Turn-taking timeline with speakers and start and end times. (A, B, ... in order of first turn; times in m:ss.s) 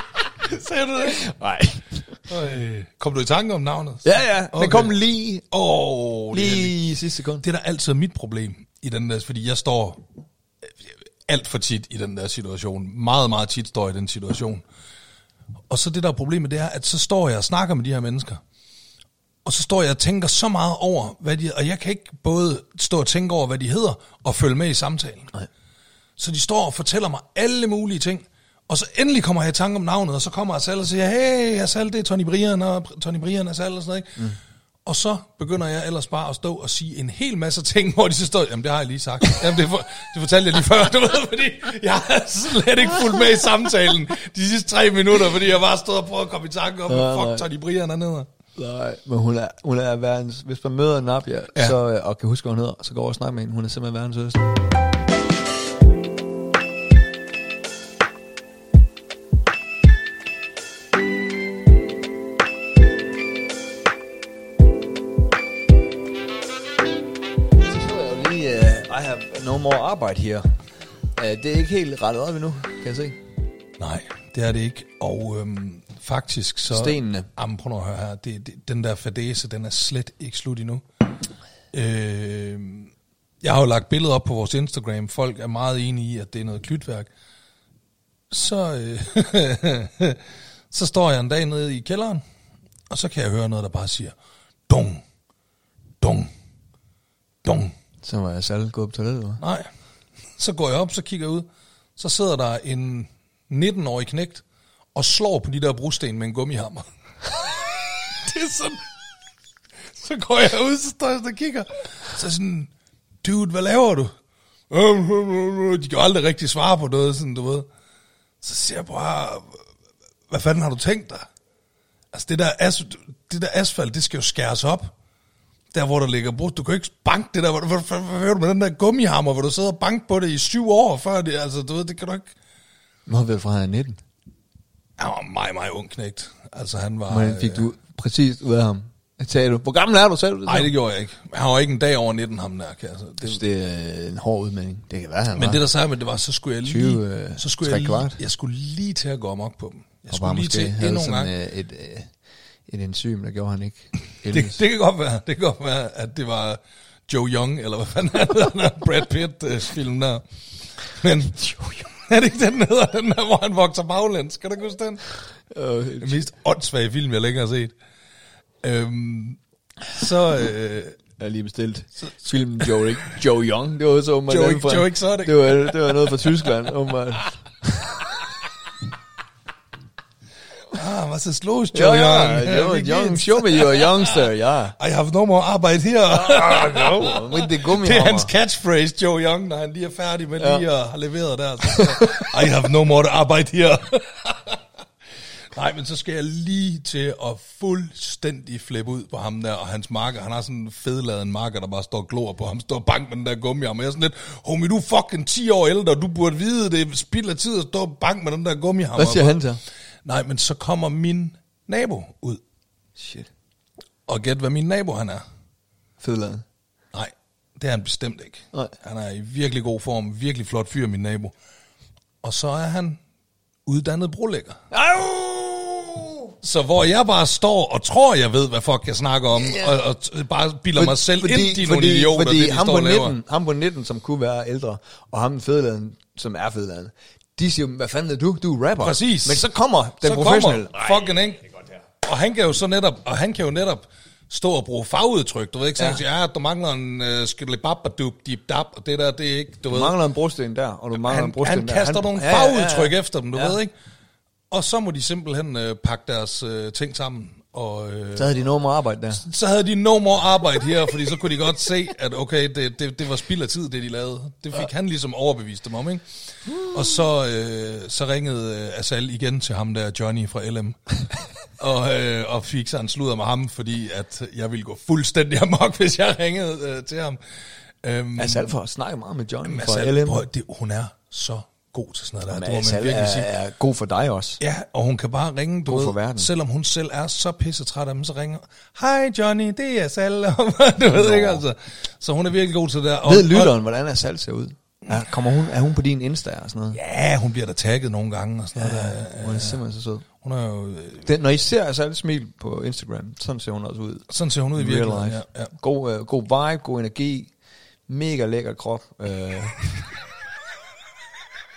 0:00.4-0:01.2 A
0:01.0-0:02.2 B
0:02.3-0:04.9 A
0:04.0-0:05.5 B
0:05.5-0:06.8 A
0:06.3-0:07.4 B
0:07.4-0:10.0 A
0:10.9-0:14.6 A
0:15.7-0:18.4 A
0:19.4-0:25.3 A
0:26.2-0:34.3 A
0:34.9-0:48.3 A
0:46.9-0:47.5 B
0:48.6-0:54.4 B
1:07.6-1:10.5 B
1:11.2-1:13.2 B
1:13.8-1:20.8 A
1:16.7-1:17.3 B
1:21.7-1:22.9 A
1:23.4-1:27.1 A
1:28.3-1:30.2 A
1:30.7-1:32.2 A
1:32.9-1:34.1 A
1:34.7-1:35.0 A
1:36.0-1:36.3 A
1:37.4-1:37.7 A
1:38.0-1:39.4 B
1:39.4-1:39.7 A
1:40.4-1:41.5 A
1:42.0-1:44.4 A
1:45.0-1:48.8 A
1:49.9-1:52.7 A
1:53.2-1:54.1 A
1:54.7-1:57.7 A
1:58.4-1:59.6 A
2:00.3-2:01.3 A
2:02.1-2:04.9 A
2:05.7-2:12.3 A
2:13.1-2:14.0 B
2:15.0-2:17.7 A
2:17.1-2:20.7 B
2:20.5-2:23.4 A
2:23.2-2:25.6 B
2:25.3-2:31.3 A
2:26.6-2:28.2 B
2:30.1-2:32.1 B
2:32.7-2:34.6 B
2:34.3-2:40.2 A
2:40.9-2:45.0 A
2:45.5-2:46.2 B
2:46.0-2:47.7 A
2:48.6-2:49.4 A
2:49.9-2:51.0 A
2:51.2-2:58.0 B
2:54.3-2:56.4 A
3:00.7-3:04.2 A
3:01.7-3:04.8 B
3:04.8-3:14.6 A
3:06.1-3:08.3 B
3:10.4-3:10.6 B
3:11.6-3:12.4 B
3:15.5-3:29.4 A
3:29.0-3:29.6 B
3:30.0-3:32.4 A
3:33.0-3:33.3 B
3:34.1-3:35.2 A
3:36.0-3:36.4 B
3:36.9-3:41.3 A
3:42.2-3:43.0 A
3:43.7-3:44.6 A
3:44.7-3:46.3 B
3:46.4-3:53.2 A
3:49.3-3:49.8 B
3:50.8-4:01.1 B
3:58.8-3:59.4 A
4:00.0-4:01.4 A
4:02.0-4:10.0 A
4:05.8-4:06.0 B
4:09.7-4:13.6 B
4:11.0-4:13.7 A
4:14.5-4:18.4 A
4:18.1-4:19.2 B
4:19.2-4:31.0 A
4:31.6-4:37.2 A
4:37.8-4:38.5 A
4:38.2-4:40.3 B
4:39.4-4:43.3 A
4:42.3-4:44.4 B
4:44.4-4:53.6 A
4:45.7-4:46.3 B
4:50.9-4:51.4 B
4:53.0-4:56.8 B
4:56.7-4:59.6 A
4:58.6-5:00.0 B
5:00.2-5:01.1 A
5:01.0-5:07.3 B
5:04.1-5:05.5 A
5:07.9-5:10.0 B